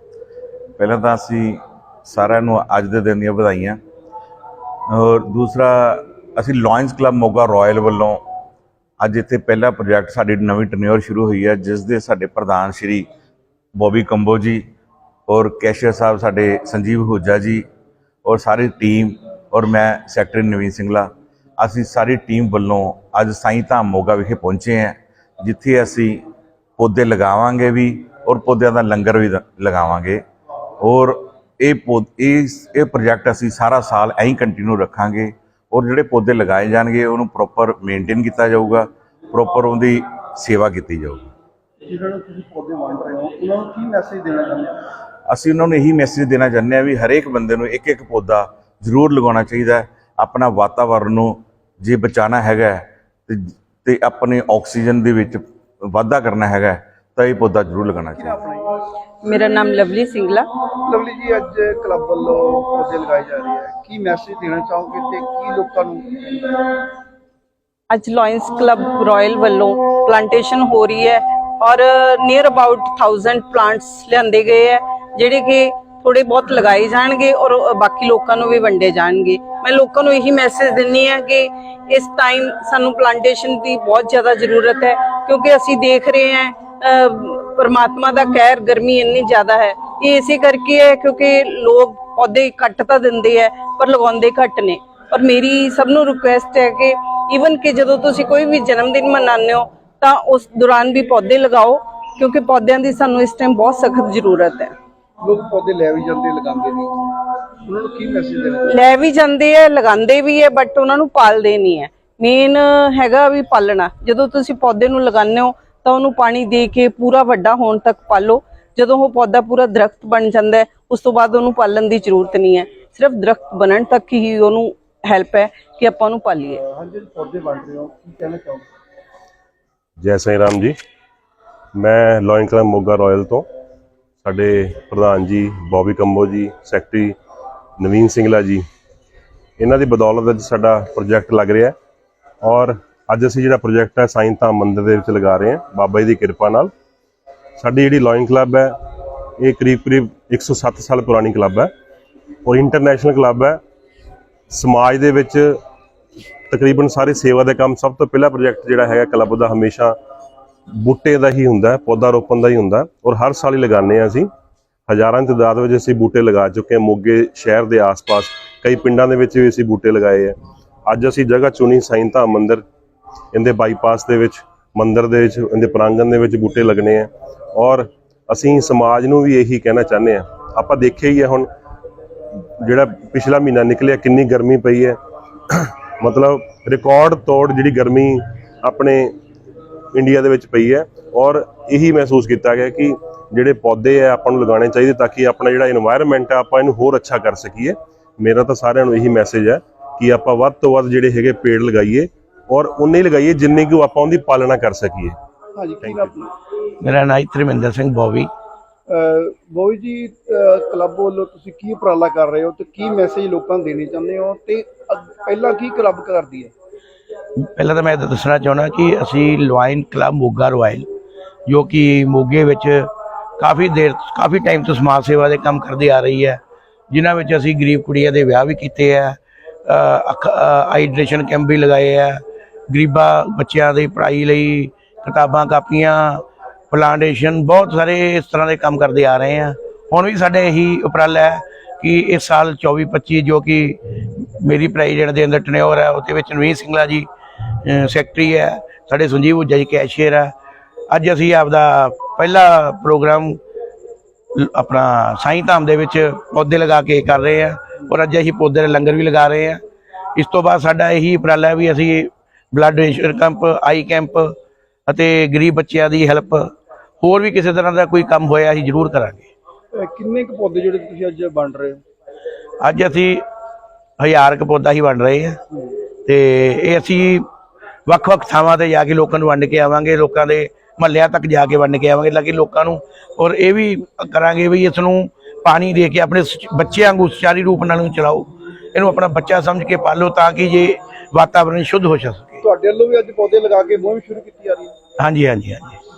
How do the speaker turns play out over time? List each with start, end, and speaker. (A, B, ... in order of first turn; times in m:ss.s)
0:00.8-0:03.8 A
0:04.9-0:08.2 A
0:09.0-0:13.1 A
0:13.7-0:14.7 A
0:15.3-0:17.7 A
0:18.2-0:26.3 A
0:26.8-0:30.2 A
0:30.8-0:41.2 A
0:41.9-0:44.8 B
0:45.3-0:58.4 A
0:58.1-0:58.7 B
0:59.2-1:00.5 C
1:00.8-1:06.6 B
1:07.9-1:44.7 C
1:45.2-1:46.9 B
1:47.6-1:48.7 B
1:48.6-2:06.6 C
2:06.6-2:08.6 B
2:10.0-2:10.8 D
2:11.8-2:13.5 D
2:14.2-2:17.2 D
2:17.8-2:18.6 D
2:19.6-2:21.8 D
2:22.4-2:26.7 D
2:27.6-2:31.7 D
2:32.4-2:33.6 D
2:34.5-2:35.6 D
2:36.5-2:40.0 D
2:40.7-2:44.3 D
2:44.9-2:52.6 D
2:53.3-3:01.5 D
3:02.6-3:09.2 D
3:09.9-3:25.2 D
3:25.6-3:26.3 B
3:25.8-3:26.1 D
3:26.8-3:28.3 E
3:28.9-3:36.5 B
3:37.4-3:40.9 E
3:41.5-4:07.1 E
4:07.6-4:10.3 E
4:10.9-4:13.4 E
4:14.4-4:19.6 E
4:20.2-4:24.4 E
4:24.9-4:29.3 E
4:29.7-4:31.8 B
4:32.6-4:33.2 E
4:34.0-4:35.4 E
4:36.0-4:37.3 E
4:37.9-4:52.4 E
4:52.4-4:54.7 B
4:55.0-4:55.8 E